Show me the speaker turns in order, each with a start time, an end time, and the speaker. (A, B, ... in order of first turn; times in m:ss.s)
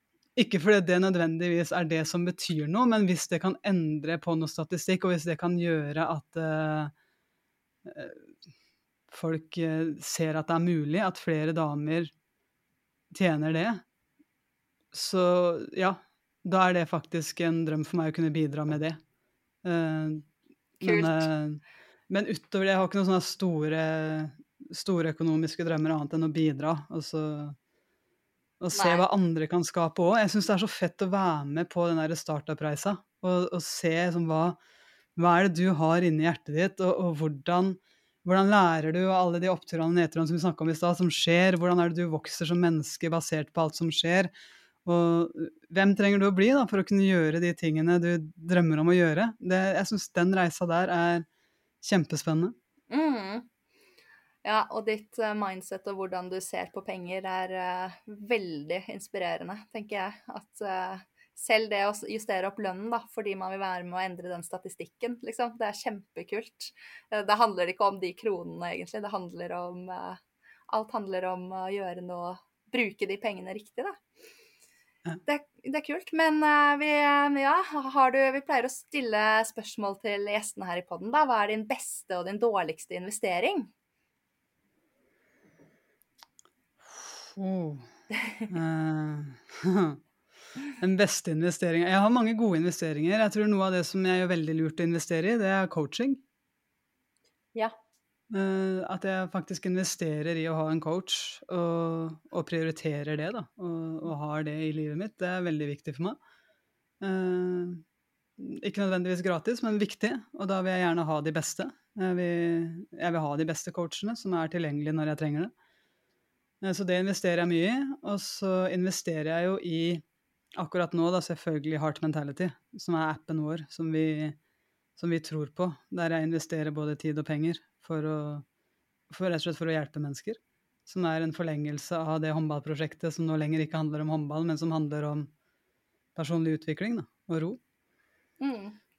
0:00.4-0:06.9 A
0:07.8-0:08.2 A
0:09.1-0:12.1 A
0:13.1-0:13.8 A
0:14.9-0:19.0 A
0:19.6-0:20.3 A
0:20.8-0:27.6 A
0:20.8-0:21.3 B
0:28.6-0:34.6 A
0:28.7-0:29.0 B
0:35.2-0:44.3 A
0:44.8-0:51.2 A
0:51.8-0:52.5 A
0:52.9-0:53.5 B
0:54.4-1:14.0 B
1:15.2-1:23.7 B
1:26.9-1:27.9 A
1:28.5-1:30.0 A
1:30.8-1:36.2 A
1:38.3-1:46.2 A
1:47.0-1:47.8 A
1:48.4-1:55.5 A
1:56.6-2:00.0 A
2:00.6-2:04.4 A
2:05.0-2:08.4 A
2:09.1-2:15.3 A
2:16.2-2:17.6 A
2:18.4-2:18.8 B